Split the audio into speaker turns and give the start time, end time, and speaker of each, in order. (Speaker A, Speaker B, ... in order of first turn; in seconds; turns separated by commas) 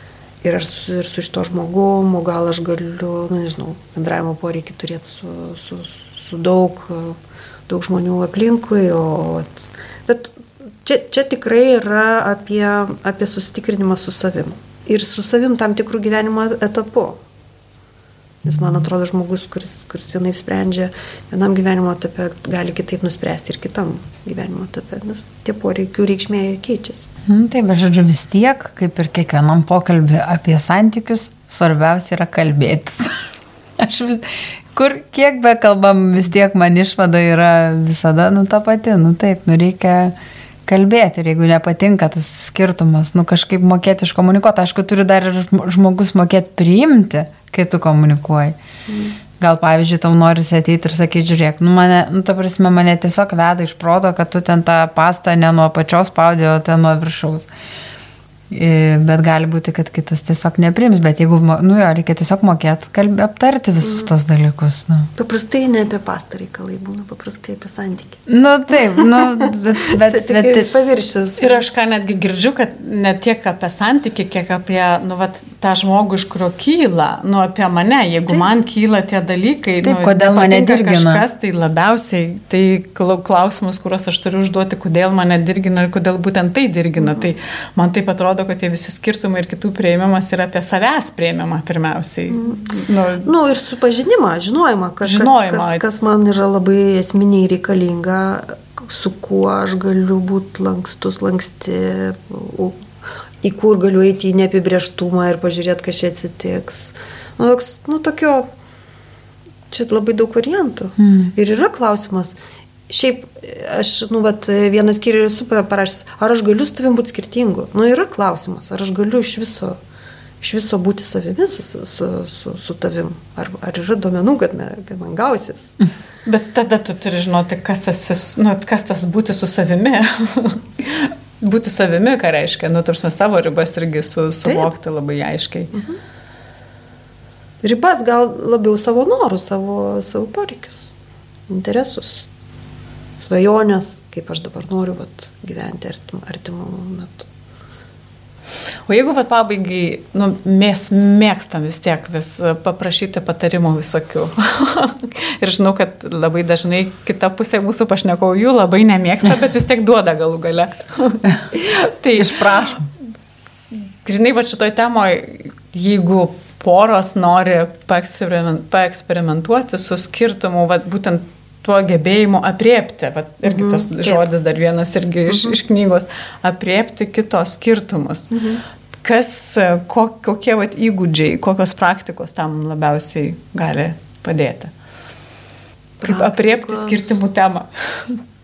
Speaker A: 0.4-17.2, Speaker A: 18.4-27.1, Speaker B: 27.2-33.2, Speaker B: 33.8-40.1, Speaker B: 40.7-48.6, Speaker A: 48.9-49.1, Speaker B: 49.4-57.5, Speaker B: 58.5-65.1, Speaker A: 63.8-64.1, Speaker A: 65.2-68.2, Speaker B: 68.3-70.7, Speaker A: 68.8-71.6, Speaker C: 71.4-93.3, Speaker B: 79.8-81.2, Speaker A: 87.0-87.3, Speaker A: 92.3-92.7, Speaker A: 93.2-102.8, Speaker C: 95.0-95.8, Speaker A: 103.4-108.5, Speaker A: 109.7-112.3, Speaker B: 111.0-111.3, Speaker A: 112.9-119.8, Speaker A: 120.4-125.7, Speaker C: 126.2-135.7, Speaker A: 134.4-134.7, Speaker A: 137.6-140.9, Speaker A: 141.5-142.3, Speaker A: 143.2-147.3, Speaker C: 148.9-162.7, Speaker B: 162.2-162.9, Speaker C: 163.7-178.3, Speaker A: 173.4-174.2, Speaker A: 175.3-175.6, Speaker A: 178.3-178.6, Speaker C: 179.0-184.7, Speaker A: 186.0-187.2, Speaker C: 186.0-188.2